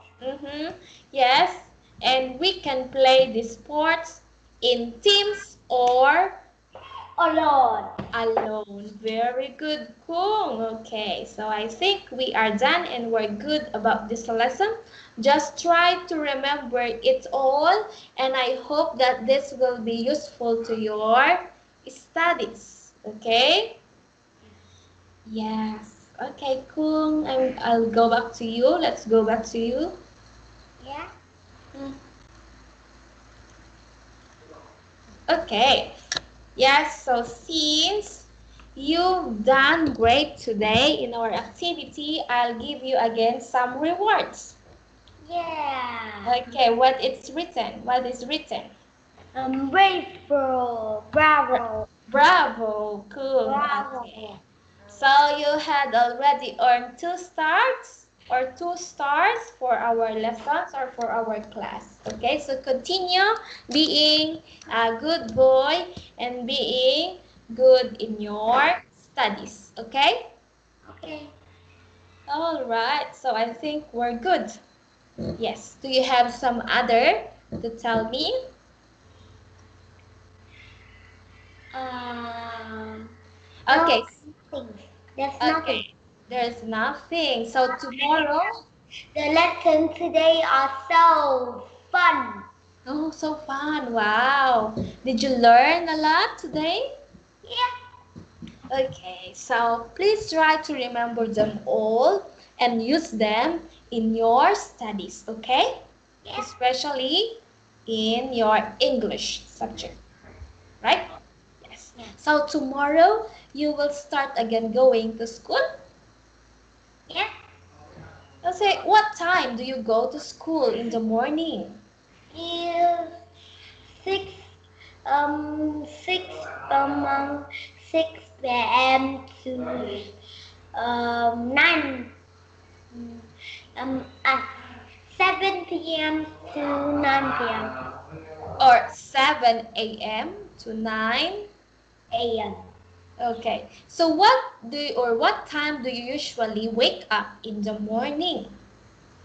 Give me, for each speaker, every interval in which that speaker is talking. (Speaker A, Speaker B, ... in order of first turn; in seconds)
Speaker A: 0.2-6.4, 8.1-23.8, 25.3-30.0, 35.3-35.9, 36.6-44.6, 46.2-48.7, 51.5-54.3, 54.9-70.3, 72.3-74.6, 75.4-78.5, 83.7-84.2, 85.4-88.5, 92.9-96.9, 98.7-105.8, 106.4-110.0, 110.8-111.1, 111.6-115.6, 118.4-121.8, 138.6-141.5, 143.2-148.6
Speaker B: 7.2-7.9, 30.8-31.1, 45.2-46.5, 49.4-51.9, 53.5-54.4, 70.9-71.3, 81.7-83.1, 83.7-85.8, 87.6-88.3, 89.2-92.5, 97.4-97.7, 106.2-106.5, 122.3-123.1, 123.9-124.5, 125.1-130.1, 130.8-132.1, 132.9-134.5, 135.1-137.7, 142.1-142.6